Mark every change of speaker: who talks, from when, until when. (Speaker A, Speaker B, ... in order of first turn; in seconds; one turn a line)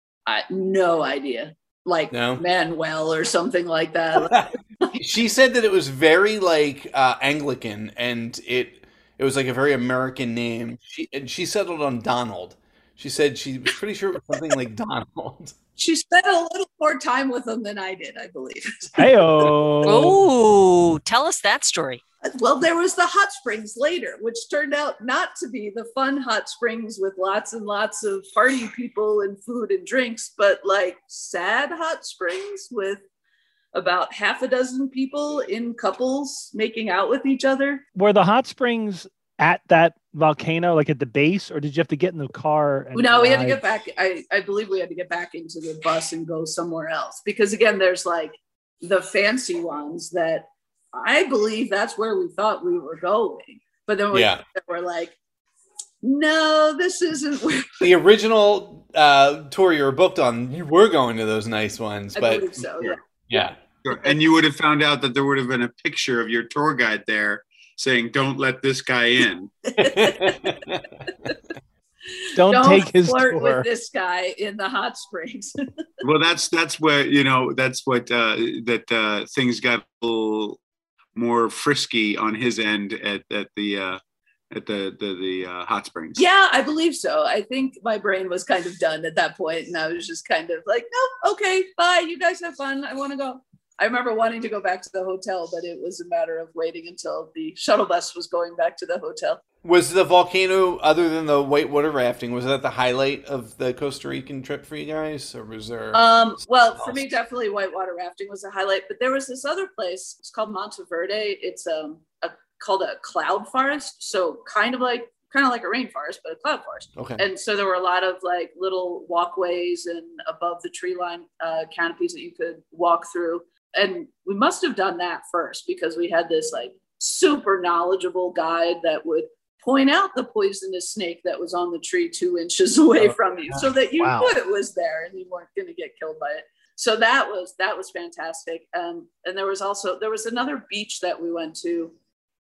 Speaker A: 0.3-4.9
Speaker B: 2.1-2.4
Speaker B: 4.2-15.6
Speaker A: 15.8-19.1
Speaker C: 19.0-20.2
Speaker D: 19.9-22.0
Speaker A: 22.2-33.0
Speaker A: 33.7-37.8
Speaker C: 38.0-43.6
Speaker A: 43.0-55.1
Speaker B: 54.1-54.4
Speaker A: 56.0-57.9
Speaker B: 57.8-62.5
Speaker A: 62.1-63.0
Speaker B: 63.3-63.6
Speaker E: 63.8-69.5
Speaker A: 69.7-70.4
Speaker B: 69.8-70.9
Speaker C: 72.4-73.7
Speaker A: 72.5-75.5
Speaker E: 76.0-80.6
Speaker E: 81.2-84.0
Speaker E: 84.5-86.2
Speaker A: 86.2-99.4
Speaker B: 99.6-106.0
Speaker A: 105.9-141.9
Speaker B: 106.8-107.1
Speaker B: 117.0-117.2
Speaker C: 134.0-134.3